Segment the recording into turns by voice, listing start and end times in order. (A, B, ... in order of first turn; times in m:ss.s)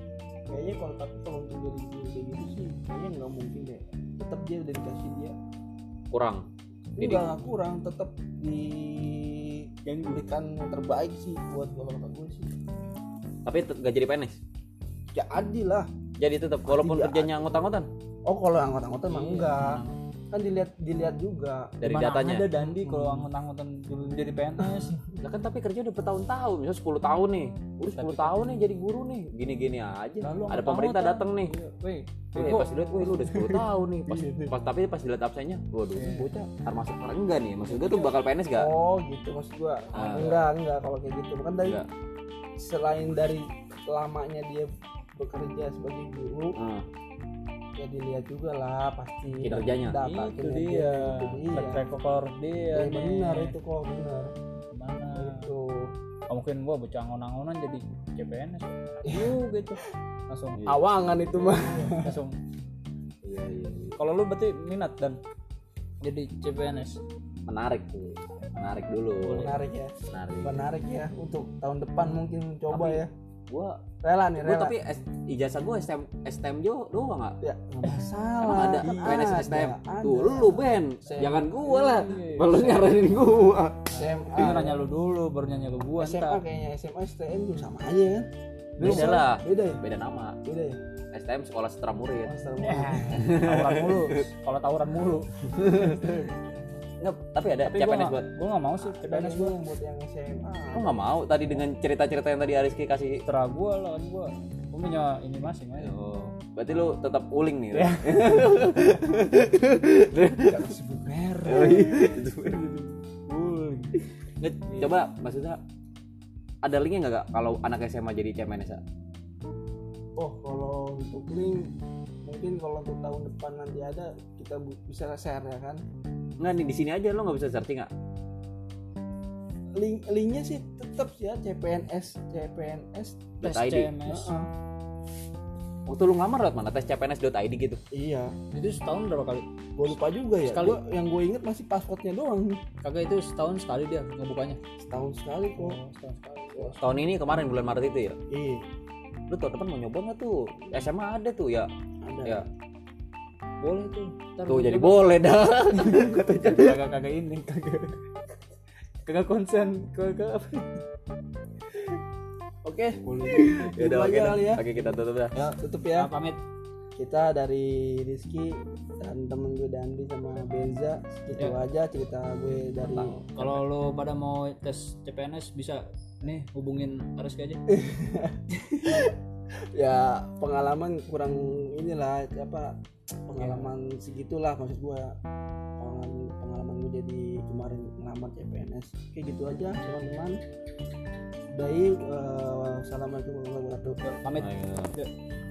0:00.5-0:05.3 A
0:06.1-0:06.4 B
0:07.0-0:12.6 A
0:07.0-0:07.2 B
0:13.4-0:14.4 B
0:15.1-0:15.9 A
0:16.2-0:17.9 B
0:16.6-0:17.7 A
0:18.2-0:21.8 A
0:19.1-0:20.0 C
0:21.8-0:22.5 B
0:21.8-0:25.0 C
0:22.6-0:23.3 A
0:24.6-0:25.1 A
0:25.2-0:31.5 B
0:27.9-0:28.4 C
0:30.2-0:34.5 C
0:32.3-0:38.7 B
0:36.0-0:36.4 C
0:36.2-0:36.5 A
0:37.6-0:41.8 A
0:39.9-0:40.4 B
0:42.6-0:46.6 A
0:46.6-0:46.8 B
0:47.8-0:51.8 A
0:49.4-0:50.0 B
0:50.0-0:53.5 C
0:52.7-0:54.3 A
0:54.7-0:55.5 C
0:55.1-0:55.9 A
0:56.3-1:00.7 C
0:59.0-0:59.4 A
1:00.7-1:02.2 A
1:01.5-1:02.4 C
1:03.2-1:04.0 B
1:04.0-1:05.2 C
1:06.0-1:07.0 C
1:07.5-1:09.5 B
1:09.2-1:09.6 C
1:09.4-1:13.1 A
1:10.1-1:10.7 B
1:12.7-1:13.8 B
1:14.0-1:14.7 A
1:14.4-1:17.4 B
1:17.4-1:21.8 A
1:18.4-1:23.9 B
1:18.8-1:19.3 C
1:21.4-1:22.9 C
1:23.9-1:26.4 C
1:23.9-1:24.8 A
1:26.0-1:29.8 A
1:28.8-1:29.2 C
1:28.8-1:30.4 B
1:30.4-1:30.8 A
1:31.1-1:32.4 B
1:32.2-1:33.4 A
1:32.6-1:36.1 C
1:33.1-1:34.2 B
1:35.6-1:36.2 B
1:35.8-1:36.1 A
1:37.0-1:38.3 B
1:37.6-1:39.6 C
1:38.8-1:41.6 A
1:40.7-1:43.2 B
1:43.2-1:45.9 C
1:45.8-1:50.7 B
1:47.7-1:48.8 C
1:50.4-1:51.9 A
1:51.4-1:52.6 B
1:51.5-1:54.0 C
1:54.4-1:55.6 B
1:54.7-1:54.9 C
1:56.6-1:58.8 B
2:00.2-2:01.7 A
2:02.2-2:05.8 A
2:06.4-2:07.9 B
2:09.8-2:13.3 A
2:13.4-2:13.9 B
2:13.4-2:14.3 C
2:14.1-2:14.5 A
2:15.9-2:17.8 B
2:17.9-2:18.3 A
2:18.5-2:19.4 C
2:19.8-2:22.6 A
2:20.4-2:20.8 C
2:22.8-2:24.6 C
2:24.8-2:25.8 A
2:25.6-2:26.8 C
2:26.5-2:27.0 A
2:26.8-2:28.2 B
2:28.3-2:28.6 A
2:29.3-2:31.7 B
2:32.0-2:32.4 A
2:33.6-2:35.1 C
2:34.5-2:36.8 B
2:35.7-2:38.0 C
2:39.0-2:40.8 C
2:42.6-2:44.6 A
2:43.0-2:43.5 C
2:43.6-2:45.5 B
2:45.3-2:46.4 C
2:45.5-2:46.1 A
2:47.0-2:53.3 A
2:52.9-2:53.6 B
2:53.4-2:57.6 C
2:57.7-2:59.2 A
2:59.7-3:02.8 A
3:03.3-3:05.2 A
3:03.4-3:03.7 C
3:05.8-3:10.4 A
3:11.5-3:14.0 A
3:14.0-3:15.1 C
3:14.4-3:14.9 B